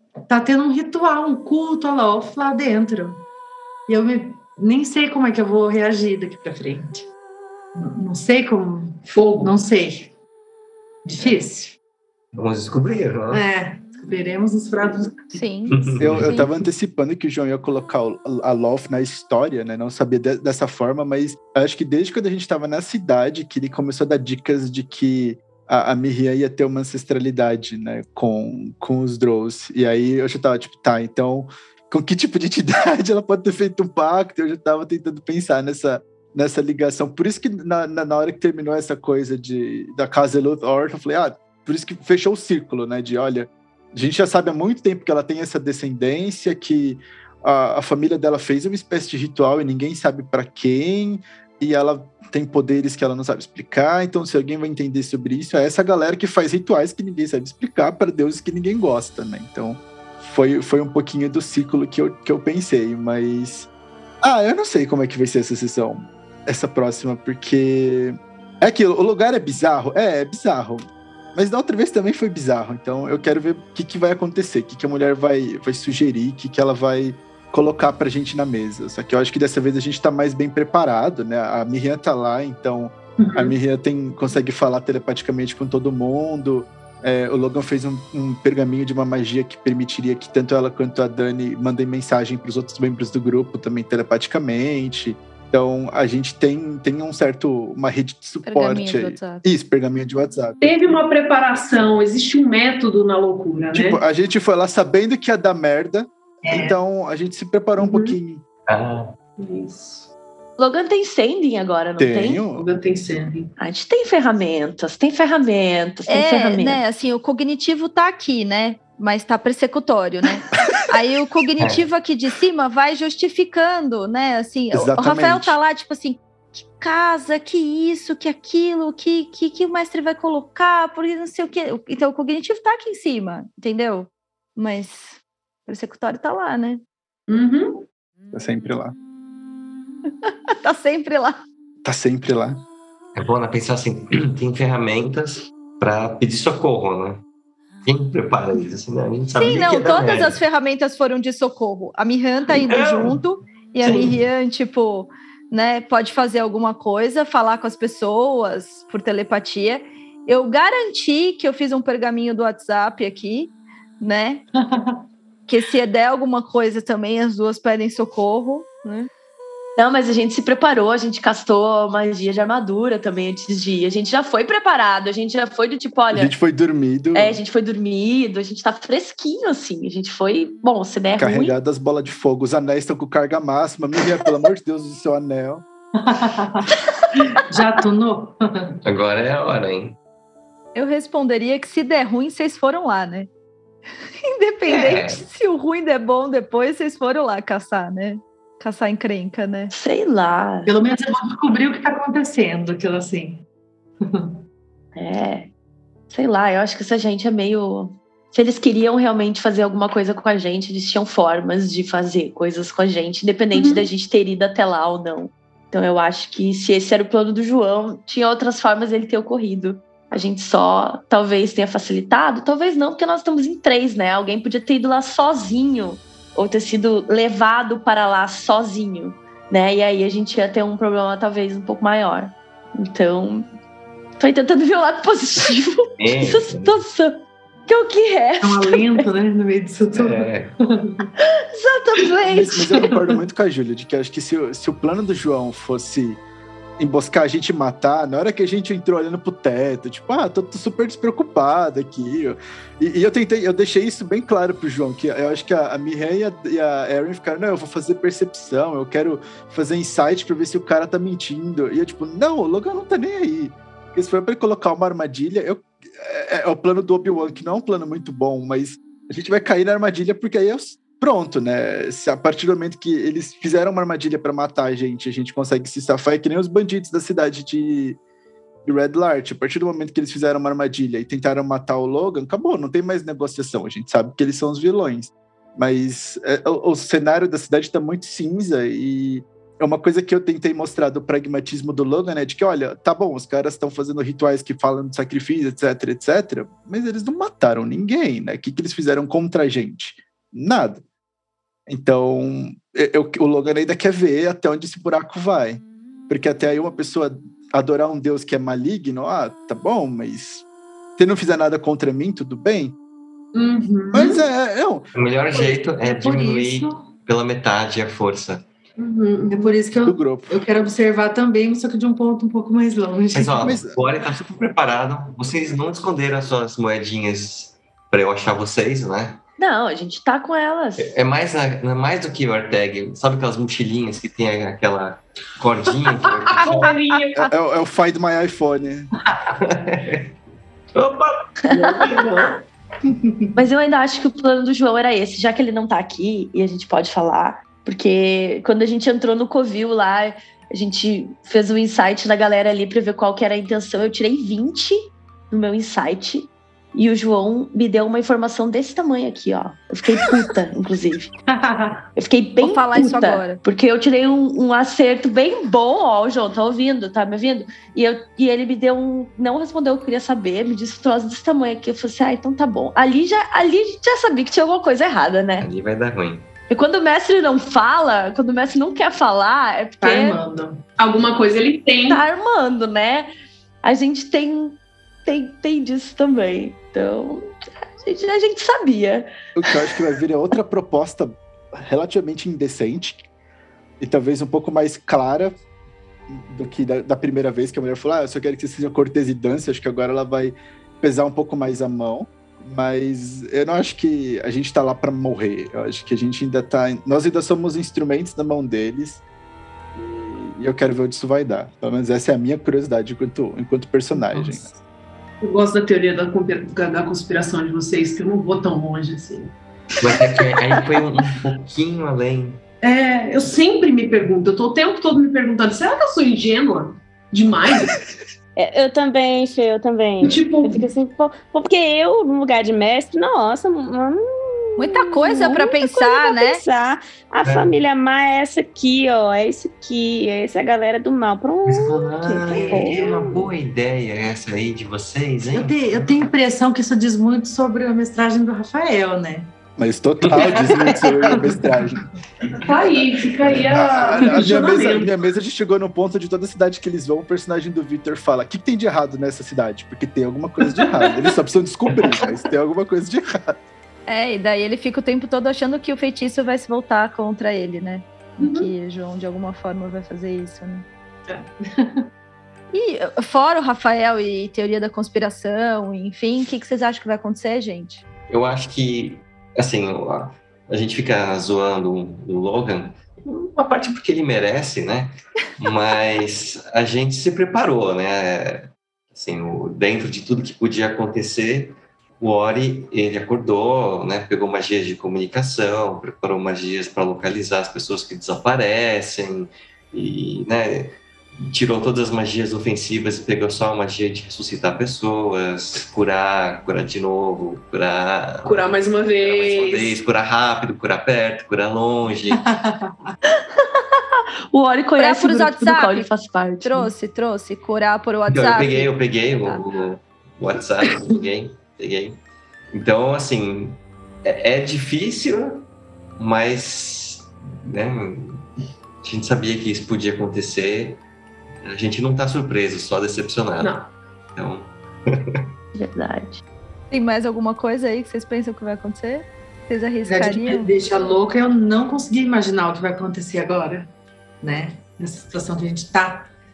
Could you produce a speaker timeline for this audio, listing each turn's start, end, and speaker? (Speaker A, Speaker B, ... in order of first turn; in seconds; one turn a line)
Speaker A: 0.3-3.2
Speaker A: 3.9-7.0
Speaker A: 7.7-10.1
Speaker B: 9.1-9.5
Speaker A: 11.0-11.8
Speaker C: 12.3-13.4
Speaker A: 13.3-15.4
Speaker D: 15.3-16.5
Speaker C: 15.7-16.4
Speaker E: 16.0-63.7
Speaker E: 64.2-70.8
Speaker E: 71.3-100.6
Speaker B: 83.2-83.5
Speaker D: 98.4-99.5
Speaker B: 100.6-104.0
Speaker E: 103.7-108.4
Speaker A: 106.5-106.8
Speaker B: 107.8-108.2
Speaker C: 108.7-109.1
Speaker B: 109.4-110.1
Speaker F: 110.6-112.5
Speaker E: 112.0-112.6
Speaker B: 112.5-113.5
Speaker F: 113.6-116.8
Speaker D: 116.1-136.8
Speaker C: 121.6-121.9
Speaker E: 124.7-125.6
Speaker B: 137.3-137.8
Speaker E: 138.3-138.9
Speaker D: 140.2-141.4
Speaker E: 141.8-142.6
Speaker C: 143.1-147.2
Speaker C: 147.8-150.4
Speaker D: 149.3-164.4
Speaker C: 152.5-153.2
Speaker C: 153.8-154.2
Speaker D: 165.5-169.1
Speaker F: 169.8-176.3
Speaker E: 176.1-177.4
Speaker F: 177.1-181.5
Speaker E: 181.2-185.6
Speaker A: 186.1-186.6
Speaker A: 187.4-188.7
Speaker C: 188.8-190.0
Speaker D: 190.7-193.3
Speaker D: 194.2-199.7
Speaker C: 194.7-195.2
Speaker F: 199.7-200.7
Speaker A: 200.7-203.4
Speaker F: 204.9-205.5
Speaker F: 206.1-233.5
Speaker B: 213.5-213.9
Speaker F: 234.2-239.0
Speaker C: 236.0-236.7
Speaker A: 238.4-240.3
Speaker C: 239.9-240.5
Speaker F: 241.2-242.8
Speaker E: 242.3-246.2
Speaker E: 246.8-278.0
Speaker E: 278.6-300.8
Speaker E: 301.7-310.4
Speaker E: 311.0-312.8
Speaker B: 313.3-314.2
Speaker E: 313.9-314.9
Speaker C: 314.9-318.4
Speaker A: 315.8-316.7
Speaker B: 318.8-319.6
Speaker A: 319.3-323.6
Speaker E: 319.8-320.4
Speaker C: 323.1-329.2
Speaker E: 323.4-323.8
Speaker F: 329.4-330.9
Speaker C: 330.8-336.7
Speaker B: 336.3-337.3
Speaker E: 337.2-338.9
Speaker C: 339.1-340.1
Speaker C: 340.7-342.4
Speaker F: 343.3-361.1
Speaker F: 361.9-375.5
Speaker D: 362.4-363.4
Speaker C: 375.4-376.3
Speaker F: 376.5-380.2
Speaker A: 379.8-380.6
Speaker B: 380.8-382.0
Speaker F: 381.9-383.1
Speaker F: 383.6-389.1
Speaker E: 389.4-393.1
Speaker E: 393.8-395.3
Speaker E: 396.1-409.0
Speaker E: 409.7-414.5
Speaker B: 413.9-414.4
Speaker B: 415.2-419.3
Speaker C: 419.8-422.4
Speaker B: 422.6-427.8
Speaker G: 428.4-441.8
Speaker B: 430.0-430.7
Speaker D: 434.6-436.4
Speaker C: 437.2-437.6
Speaker C: 441.4-446.0
Speaker A: 442.0-443.2
Speaker G: 442.4-442.7
Speaker A: 445.3-449.3
Speaker E: 449.6-451.8
Speaker C: 450.0-451.3
Speaker B: 452.4-454.9
Speaker C: 453.3-453.6
Speaker E: 453.4-463.4
Speaker B: 460.4-461.1
Speaker B: 461.8-462.2
Speaker D: 463.9-470.6
Speaker B: 468.2-468.5
Speaker A: 471.1-471.7
Speaker D: 472.5-477.8
Speaker C: 478.1-500.8
Speaker C: 501.3-508.4
Speaker B: 508.2-509.8
Speaker C: 509.0-512.2
Speaker F: 513.1-516.7
Speaker D: 514.8-515.9
Speaker D: 516.4-519.4
Speaker C: 518.1-522.0
Speaker C: 522.5-525.4
Speaker C: 526.0-528.2
Speaker C: 528.8-530.8
Speaker C: 531.4-533.5
Speaker B: 533.4-533.7
Speaker C: 534.1-535.2
Speaker F: 535.5-536.2
Speaker D: 536.7-540.5
Speaker A: 539.8-543.7
Speaker A: 544.2-546.1